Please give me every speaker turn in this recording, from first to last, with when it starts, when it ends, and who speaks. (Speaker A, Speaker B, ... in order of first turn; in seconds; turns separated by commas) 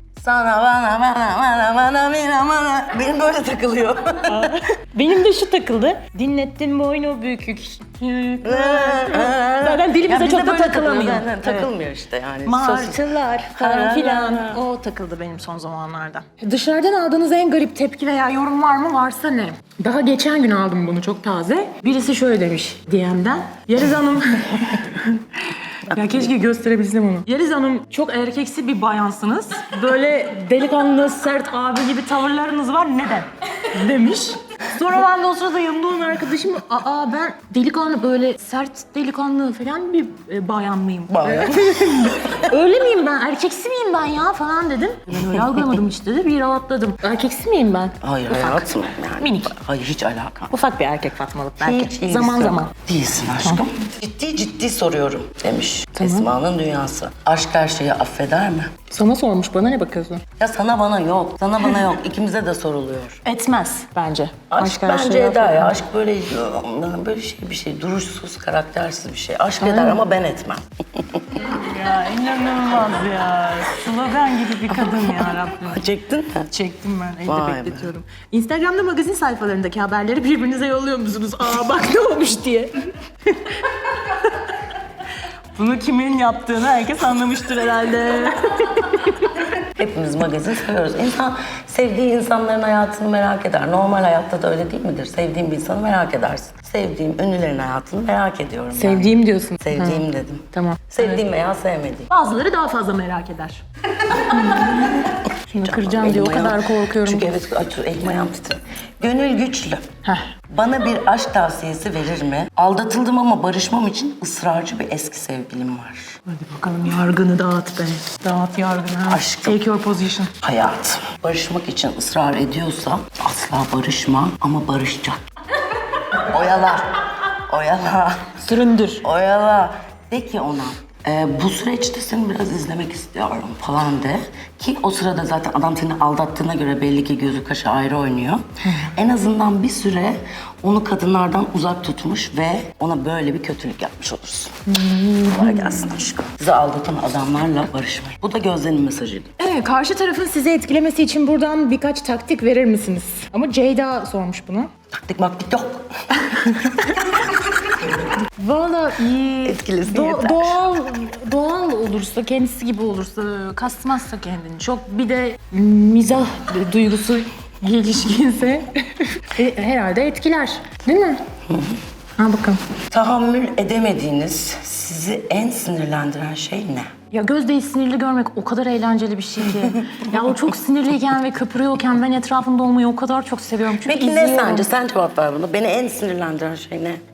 Speaker A: 0.2-4.5, Speaker B: 4.2-11.7, Speaker A: 8.4-14.6, Speaker B: 12.4-49.5, Speaker A: 41.1-42.5, Speaker A: 45.1-45.7, Speaker A: 48.0-50.5, Speaker B: 50.5-52.7, Speaker A: 51.6-58.9, Speaker B: 56.0-56.3, Speaker B: 58.9-60.2, Speaker A: 60.4-63.2, Speaker B: 63.2-65.8, Speaker A: 64.5-71.5, Speaker B: 69.6-70.0, Speaker B: 71.3-75.9, Speaker A: 74.8-76.5, Speaker B: 76.5-82.7, Speaker A: 77.2-77.9, Speaker B: 83.2-84.8, Speaker B: 85.5-89.4, Speaker A: 89.7-102.1, Speaker B: 98.7-101.2, Speaker B: 102.1-107.3, Speaker A: 104.3-109.8, Speaker B: 110.0-110.3, Speaker A: 110.5-116.2, Speaker B: 116.2-120.3, Speaker A: 119.1-119.6, Speaker A: 120.4-125.2, Speaker A: 126.2-128.4, Speaker B: 128.4-129.0, Speaker A: 129.0-144.6, Speaker B: 144.7-146.0, Speaker A: 145.2-149.3, Speaker B: 149.4-154.7, Speaker A: 154.9-155.9, Speaker B: 156.2-157.6, Speaker B: 158.2-171.2, Speaker A: 159.4-160.6, Speaker A: 171.5-171.8, Speaker B: 172.2-172.6, Speaker A: 172.9-176.9, Speaker B: 177.1-184.7, Speaker A: 179.6-180.1, Speaker A: 183.8-187.0